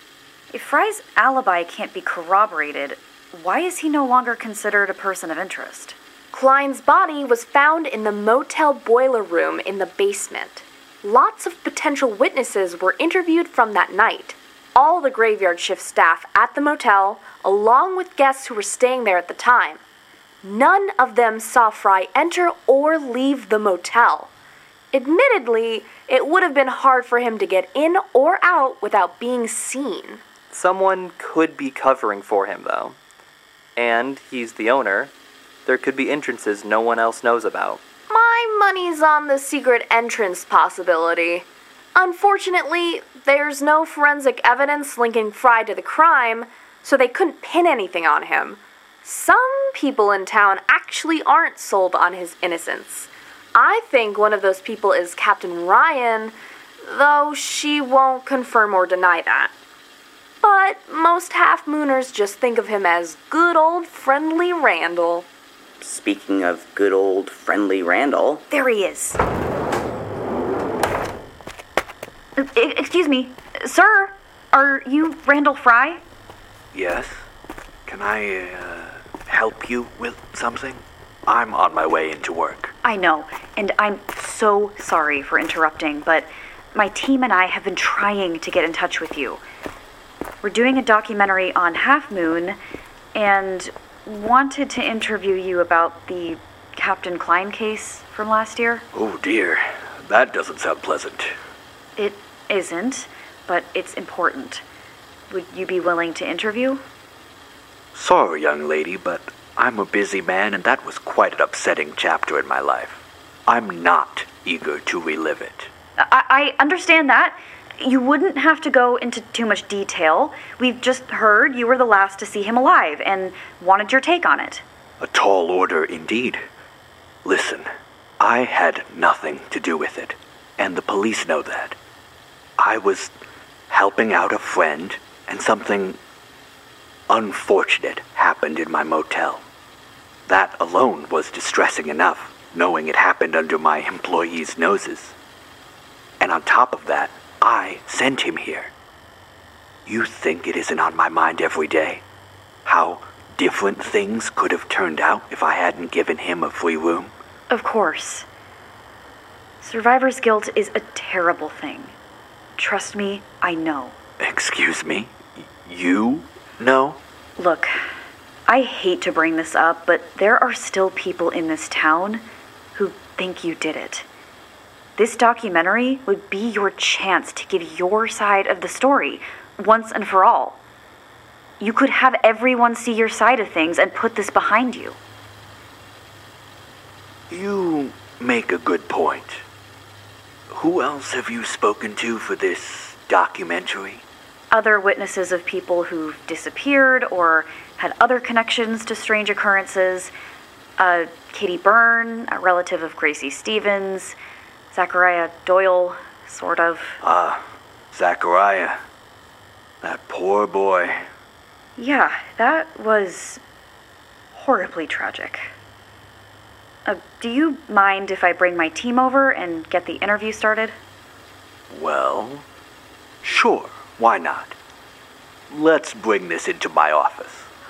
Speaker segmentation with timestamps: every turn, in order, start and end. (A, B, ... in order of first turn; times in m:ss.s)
0:00.5-0:06.0 A
0:06.3-0:19.8 B
0:20.4-0:24.3 B
0:24.9-0:30.2 B
0:30.5-0:33.0 C
0:33.8-0:35.1 C
0:35.6-0:37.8 C
0:38.1-0:59.5 B
1:00.4-1:05.3 B
1:05.8-1:08.4 D
1:08.5-1:09.2 A
1:12.4-1:16.0 A
1:16.7-1:17.2 E
1:17.8-1:22.7 E
1:22.8-1:29.4 A
1:30.4-1:32.6 A
1:33.1-1:38.8 A
1:38.9-1:41.4 E
1:42.0-1:44.6 A
1:45.3-1:46.8 A
1:47.9-1:55.7 E
1:56.0-2:04.6 A
2:05.0-2:06.4 E
2:07.2-2:07.7 E
2:08.2-2:11.8 E
2:12.6-2:13.1 E
2:13.7-2:16.0 E
2:17.1-2:19.4 E
2:20.3-2:25.1 E
2:26.2-2:28.7 E
2:29.8-2:32.0 E
2:32.6-2:37.1 E
2:37.5-2:38.2 A
2:39.6-2:41.9 A
2:42.6-2:44.0 A
2:44.2-2:47.0 E
2:47.4-2:47.8 A
2:48.5-2:54.1 A
2:55.0-3:00.6 A
3:01.6-3:05.0 A
3:07.3-3:09.4 E
3:10.5-3:14.0 E
3:14.5-3:20.1 A
3:20.8-3:24.2 A
3:24.7-3:27.0 A
3:27.0-3:28.8 E
3:29.8-3:31.0 E
3:31.8-3:33.4 A
3:34.3-3:35.5 A
3:36.8-3:40.8 A
3:41.7-3:42.4 E
3:43.2-3:44.6 E
3:45.5-3:47.5 E